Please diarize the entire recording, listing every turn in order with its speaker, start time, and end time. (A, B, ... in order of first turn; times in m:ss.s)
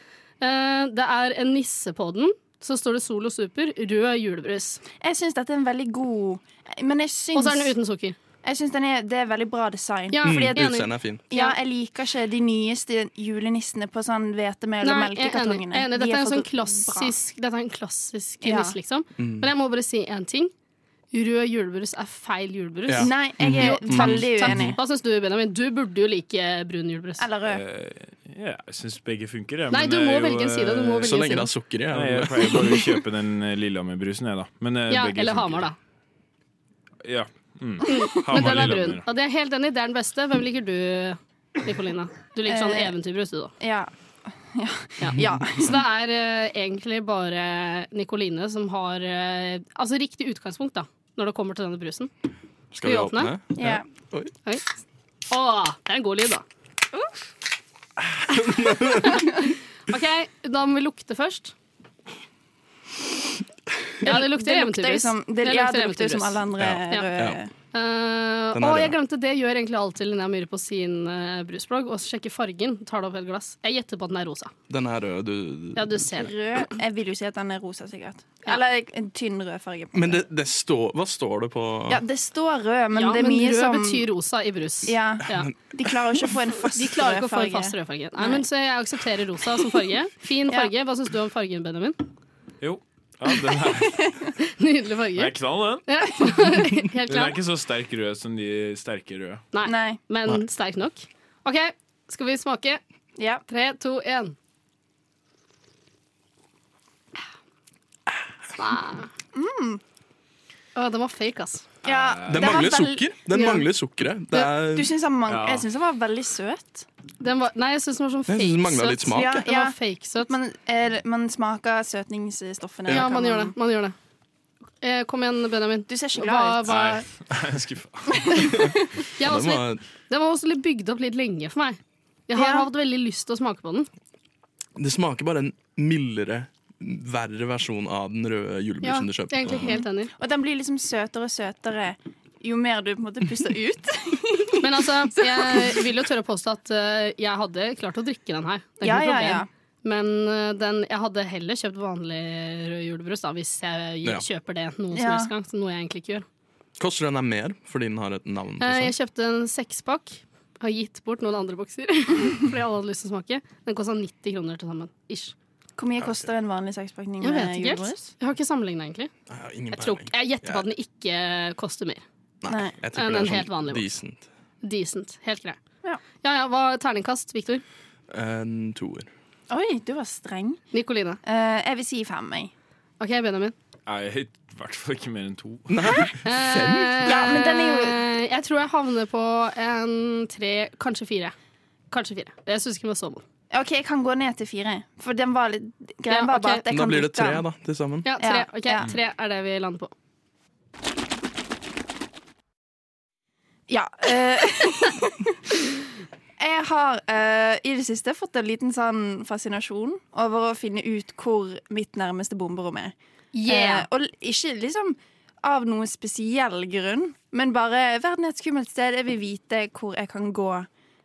0:00.4-0:04.8 A
0:05.0-0:07.7 B
0:07.3-0:08.2 A
0:08.4-0:17.1 B
0:10.1-0:11.6 A
0:10.2-0:11.2 C
0:14.8-0:20.5 A
0:18.4-0:18.8 B
0:19.2-0:19.5 C
0:21.1-0:27.3 A
0:22.9-0:24.8 C
0:23.0-0:24.7 B
0:27.2-0:27.6 B
0:27.4-0:31.2 D
0:29.7-0:31.5 A
0:31.0-0:32.9 C
0:31.9-0:35.7 D
0:34.9-0:35.8 A
0:37.0-0:39.0 D
0:37.8-0:43.5 A
0:42.5-0:42.9 B
0:43.6-0:43.9 B
0:44.4-0:45.8 B
0:45.0-0:52.1 A
0:52.7-0:54.3 C
0:52.8-0:53.3 A
0:53.6-0:53.8 B
0:55.3-0:56.4 A
0:58.3-0:59.3 C
0:58.4-1:01.5 A
1:04.0-1:07.5 B
1:04.0-1:07.1 A
1:06.6-1:07.4 C
1:07.7-1:14.5 A
1:08.5-1:09.0 C
1:14.7-1:16.1 C
1:15.8-1:16.3 A
1:16.1-1:20.3 B
1:19.9-1:22.0 C
1:21.9-1:24.1 B
1:22.9-1:25.5 A
1:24.8-1:28.4 B
1:25.4-1:25.9 C
1:26.7-1:32.0 A
1:32.6-1:34.3 D
1:33.6-1:34.3 B
1:34.4-1:35.3 A
1:35.1-1:39.4 D
1:35.8-1:37.4 A
1:39.5-1:42.8 A
1:39.6-1:40.0 B
1:43.2-1:43.4 B
1:43.5-1:44.4 A
1:48.6-1:49.1 A
1:49.3-1:49.8 B
1:50.8-1:51.7 A
1:51.8-1:52.7 D
1:51.8-1:53.6 B
1:52.3-1:55.0 C
1:54.4-1:56.8 B
1:55.3-1:55.7 D
1:57.2-2:00.3 A
1:58.3-1:59.5 C
1:59.1-2:03.5 B
2:02.9-2:03.9 A
2:04.8-2:07.1 A
2:05.9-2:06.9 B
2:06.7-2:08.6 D
2:08.3-2:08.7 B
2:08.7-2:09.8 C
2:09.2-2:13.9 A
2:12.4-2:12.7 B
2:14.8-2:19.8 C
2:18.8-2:20.1 A
2:19.5-2:25.8 B
2:24.6-2:36.2 A
2:28.8-2:29.5 B
2:34.9-2:35.3 B
2:36.8-2:38.9 C
2:38.6-2:45.3 A
2:45.8-2:48.1 B
2:46.0-2:46.3 C
2:47.2-2:49.1 A
2:49.3-2:50.7 C
2:49.7-2:52.0 A
2:52.4-2:54.3 C
2:52.5-2:52.8 B
2:52.9-2:53.9 A
2:54.6-2:55.6 A
2:56.2-2:57.6 A
2:58.1-2:59.1 C
2:59.5-3:00.6 B
3:00.7-3:01.2 A
3:01.2-3:02.5 B
3:03.0-3:03.5 A
3:03.8-3:05.7 D
3:05.7-3:07.2 C
3:06.2-3:11.3 A
3:07.0-3:08.0 B
3:11.9-3:13.2 A
3:13.5-3:17.4 B
3:16.1-3:16.6 A
3:16.7-3:18.1 C
3:18.0-3:19.9 A
3:18.2-3:18.9 B
3:23.7-3:25.6 B
3:26.4-3:32.9 B
3:33.3-3:33.9 A
3:33.4-3:40.7 B